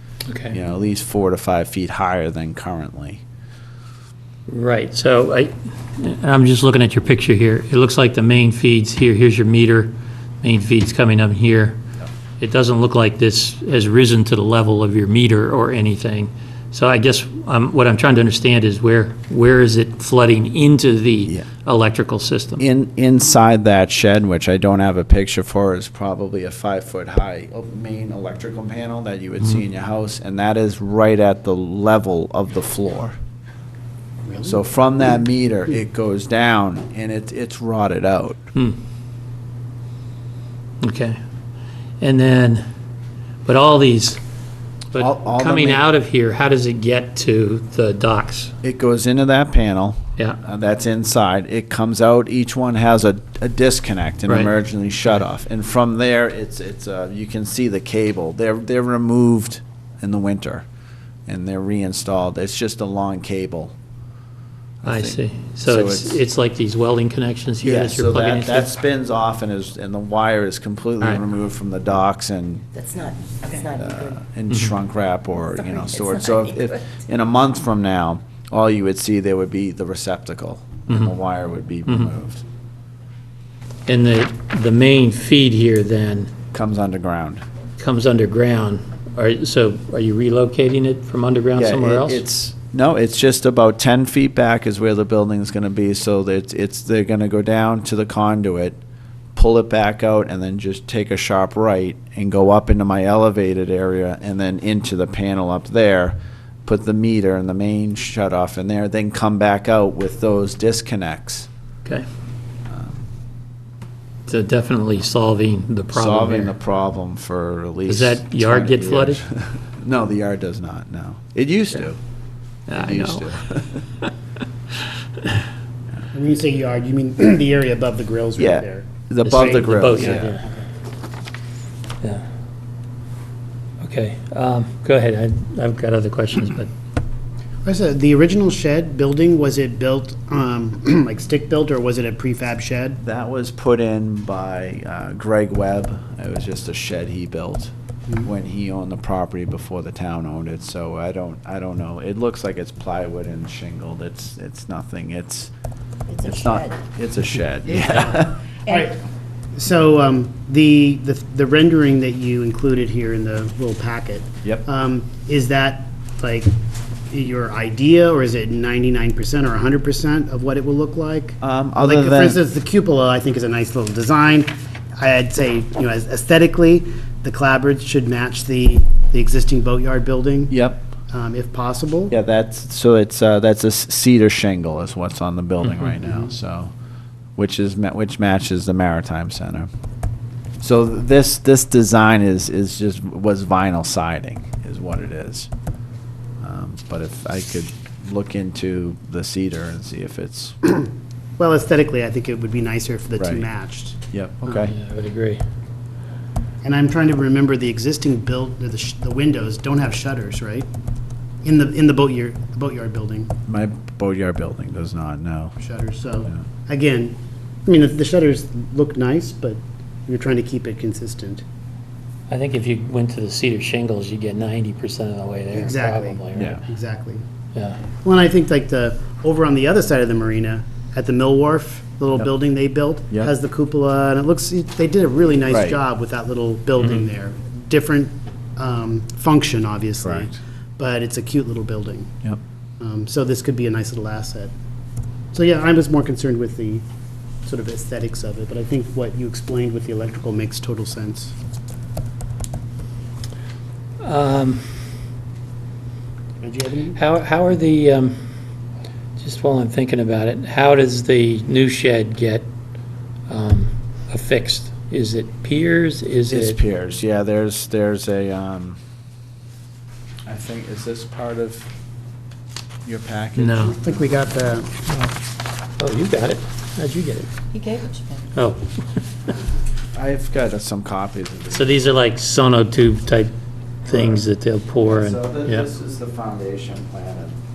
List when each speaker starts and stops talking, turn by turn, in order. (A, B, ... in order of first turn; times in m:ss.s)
0:00.3-0:00.6 A
0:00.5-0:03.2 B
0:04.5-0:11.8 A
0:12.4-0:22.6 A
0:22.6-0:33.2 B
0:34.4-0:38.4 B
0:40.8-0:41.2 A
0:42.0-0:42.7 A
0:43.5-0:44.2 A
0:44.9-0:48.5 A
0:45.0-0:45.8 B
0:48.6-1:00.7 B
1:01.3-1:03.7 B
1:04.8-1:06.2 B
1:04.8-1:08.7 A
1:07.6-1:12.7 B
1:12.7-1:14.2 C
1:13.7-1:22.4 B
1:15.4-1:16.9 C
1:23.9-1:26.3 A
1:26.5-1:27.4 B
1:27.8-1:32.2 A
1:31.6-1:38.8 B
1:39.4-1:51.5 B
1:52.7-1:53.1 B
1:54.3-1:56.5 A
1:55.9-2:02.0 B
1:57.9-1:59.2 A
2:02.7-2:03.3 A
2:02.7-2:03.8 B
2:06.1-2:10.6 D
2:08.4-2:10.3 B
2:09.2-2:10.4 A
2:13.8-2:16.7 A
2:17.6-2:23.0 D
2:23.0-2:27.7 B
2:28.2-2:35.5 B
2:36.1-2:36.8 C
2:36.2-2:38.4 B
2:37.7-2:39.0 D
2:39.5-2:46.5 D
2:47.1-3:00.5 D
2:51.4-2:52.4 B
3:00.5-3:00.9 B
3:01.1-3:02.1 D
3:02.1-3:06.7 B
3:07.4-3:09.7 B
3:10.6-3:15.5 B
3:16.4-3:20.6 B
3:21.4-3:24.7 D
3:23.2-3:23.4 B
3:24.1-3:24.7 B
3:24.7-3:25.4 A
3:26.6-3:30.7 D
3:31.4-3:33.3 D
3:33.5-3:35.6 B
3:35.6-3:41.4 D
3:42.3-3:46.6 A
3:45.5-3:47.2 D
3:46.4-3:46.6 B
3:47.6-3:47.8 A
3:48.0-4:02.2 D
3:55.5-3:55.8 B
4:00.0-4:00.4 B
4:02.8-4:04.5 D
4:05.3-4:06.8 D
4:07.4-4:11.3 D
4:14.0-4:14.7 A
4:16.4-4:17.0 D
4:17.0-4:18.2 A
4:19.2-4:22.5 A
4:23.3-4:26.6 A
4:26.3-4:28.8 B
4:30.3-4:31.7 B
4:32.8-4:34.0 B
4:33.4-4:33.8 A
4:33.8-4:34.8 D
4:35.8-4:37.3 A
4:37.5-4:38.3 C
4:38.3-4:38.7 A
4:39.9-4:41.8 B
4:41.5-4:43.3 A
4:43.8-4:45.7 A
4:44.8-4:47.4 B